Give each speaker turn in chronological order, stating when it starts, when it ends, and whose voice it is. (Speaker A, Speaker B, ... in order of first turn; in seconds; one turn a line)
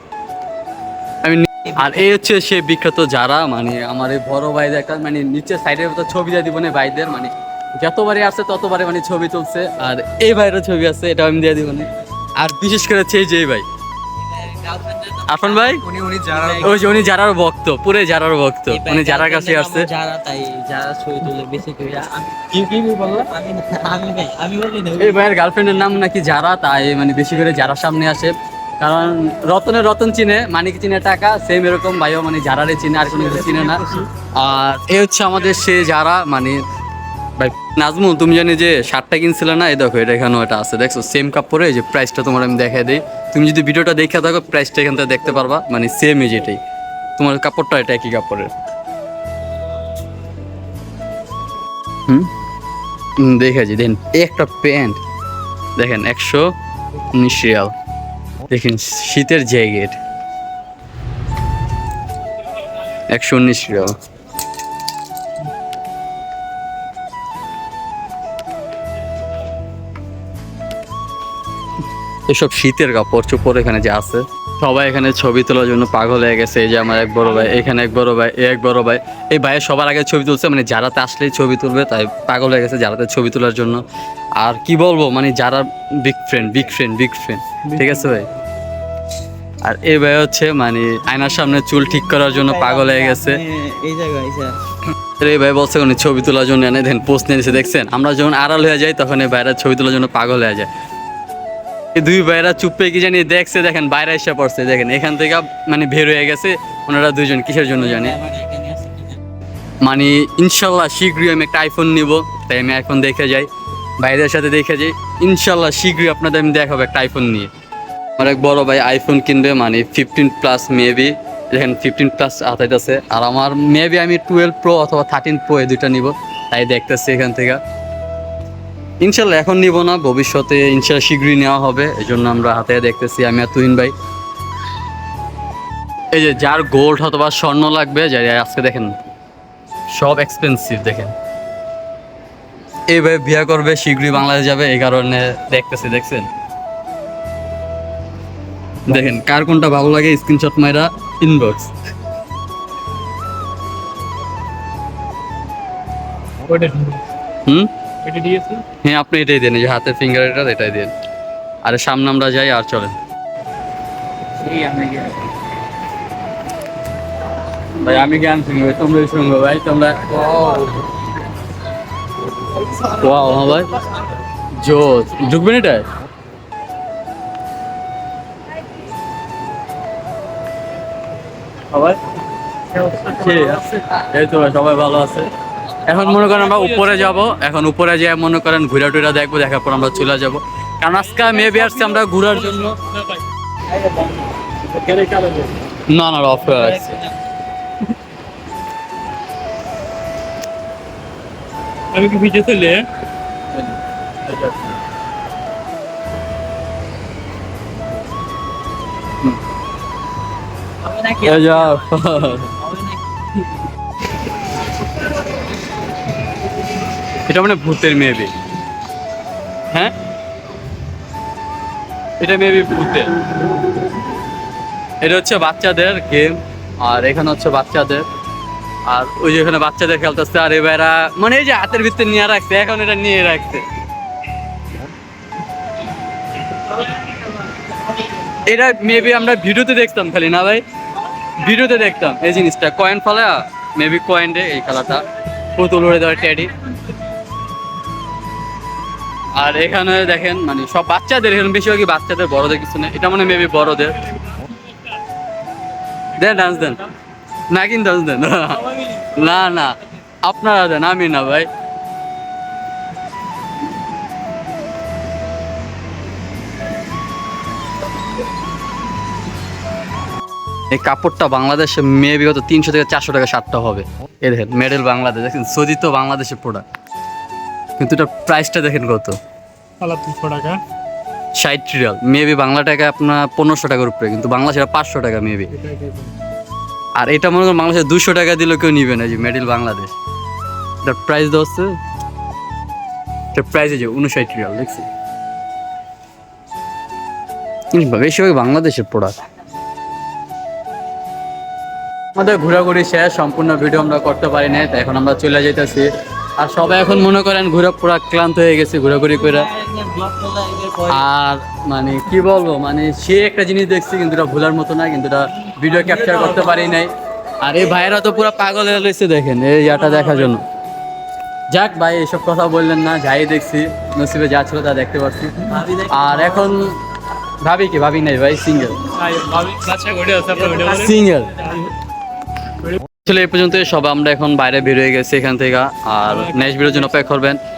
Speaker A: 1.2-13.7
Speaker B: 14.3-16.7
Speaker A: 15.2-19.9
Speaker B: 18.7-22.5
Speaker A: 22.5-23.3
Speaker B: 23.3-25.2
Speaker A: 24.9-36.6
Speaker A: 37.4-46.6
Speaker A: 47.2-48.5
Speaker A: 53.2-55.0
Speaker A: 55.8-56.5
Speaker A: 57.1-57.7
Speaker A: 58.5-60.0
Speaker A: 63.1-63.9
Speaker A: 72.3-83.8
Speaker A: 84.4-88.3
Speaker A: 89.6-93.4
Speaker B: 92.1-94.6
Speaker A: 95.0-100.7
Speaker A: 101.9-108.2
Speaker B: 107.9-109.2
Speaker A: 109.8-113.5
Speaker A: 114.0-117.5
Speaker A: 118.2-127.6
Speaker A: 129.0-133.9
Speaker A: 136.1-138.9
Speaker A: 139.9-141.1
Speaker A: 142.9-146.3
Speaker A: 148.8-151.7
Speaker C: 156.4-157.0
Speaker C: 158.0-158.6
Speaker A: 158.8-160.9
Speaker A: 161.6-162.9
Speaker A: 164.4-165.2
Speaker A: 167.8-170.7
Speaker A: 172.6-173.8
Speaker A: 174.6-175.9
Speaker A: 181.7-182.0
Speaker C: 182.8-183.2
Speaker A: 182.8-185.3
Speaker A: 185.8-192.8
Speaker C: 186.2-187.0
Speaker C: 191.2-191.9
Speaker C: 192.8-193.2
Speaker B: 193.8-194.1
Speaker C: 194.9-195.5
Speaker A: 195.9-197.0
Speaker C: 201.9-202.9
Speaker A: 204.2-204.7
Speaker B: 210.8-211.8
Speaker A: 211.1-212.6
Speaker B: 212.6-213.0
Speaker A: 217.2-218.3
Speaker A: 222.2-223.1
Speaker A: 225.0-228.1
Speaker A: 228.8-233.6
Speaker A: 238.3-240.6
Speaker A: 241.4-245.0
Speaker A: 245.5-246.5
Speaker A: 249.3-254.0
Speaker A: 256.1-256.8
Speaker A: 257.5-261.5
Speaker A: 270.7-276.6
Speaker A: 277.8-279.2
Speaker C: 279.8-280.6
Speaker A: 281.4-285.5
Speaker C: 285.6-286.1
Speaker A: 287.0-289.9
Speaker A: 290.8-291.8
Speaker A: 293.3-294.9
Speaker A: 297.7-299.1
Speaker A: 302.1-309.5
Speaker B: 309.2-311.0
Speaker A: 310.9-320.4
Speaker A: 321.5-326.8
Speaker A: 327.4-328.8
Speaker C: 329.0-331.7
Speaker A: 330.5-331.5
Speaker A: 332.9-337.4
Speaker C: 336.2-336.5